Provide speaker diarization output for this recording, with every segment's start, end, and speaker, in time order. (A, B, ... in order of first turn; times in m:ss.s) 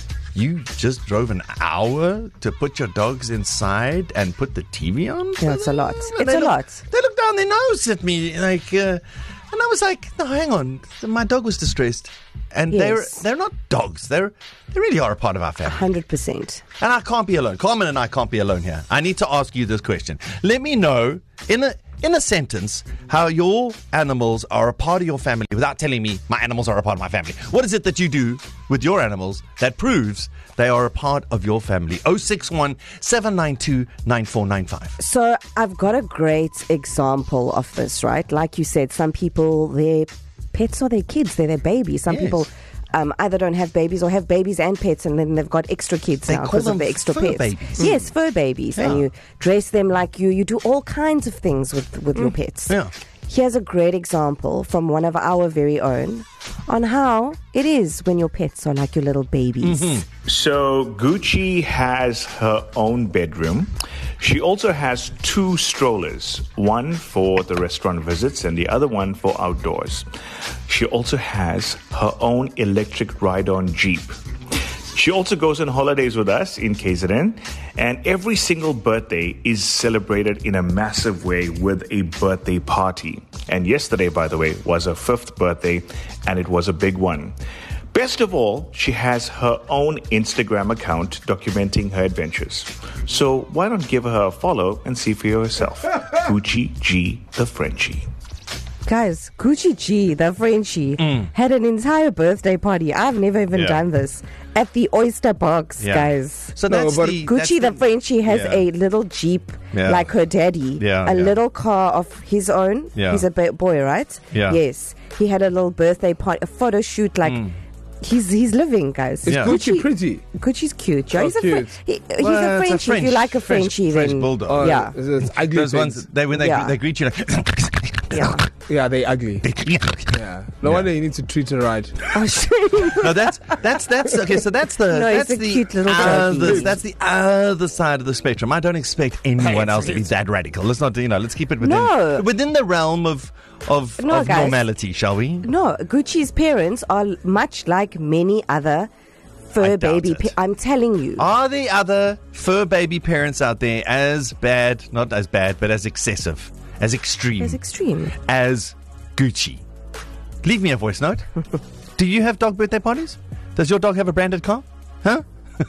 0:00.4-0:15.9 A
0:05.4-0:06.8 B
0:12.7-0:13.2 B
0:15.7-0:16.6 B
0:16.8-0:35.0 A
0:35.0-0:52.8 B
0:42.1-0:42.5 A
0:46.3-0:48.1 A
0:48.8-0:49.0 A
0:52.2-0:52.9 A
0:53.3-1:00.0 B
0:59.6-1:00.0 A
1:00.3-1:10.1 C
1:10.7-1:14.2 C
1:14.9-1:27.4 C
1:27.9-1:38.1 C
1:38.8-1:46.5 B
1:41.0-1:41.3 A
1:43.5-1:43.8 A
1:45.8-1:48.7 A
1:46.7-1:47.2 D
1:47.2-1:57.5 B
1:49.7-1:50.1 A
1:50.8-1:51.4 A
1:53.0-1:53.2 A
1:54.3-1:54.6 A
1:57.2-1:57.5 A
1:58.0-2:05.0 B
1:59.2-2:00.2 D
1:59.3-1:59.6 A
2:01.1-2:01.8 D
2:02.2-2:04.8 A
2:04.5-2:06.0 D
2:05.4-2:08.4 A
2:06.4-2:06.8 B
2:08.1-2:08.4 B
2:08.7-2:09.5 D
2:09.4-2:10.9 A
2:10.1-2:12.0 D
2:12.1-2:13.6 B
2:13.0-2:25.5 A
2:14.9-2:16.8 B
2:16.0-2:16.7 D
2:21.6-2:22.3 B
2:24.0-2:24.6 B
2:25.4-2:28.9 B
2:29.5-2:31.3 B
2:29.6-2:30.4 A
2:31.2-2:37.6 A
2:37.4-2:38.2 B
2:38.2-2:39.6 A
2:40.4-2:41.3 A
2:42.0-2:45.2 A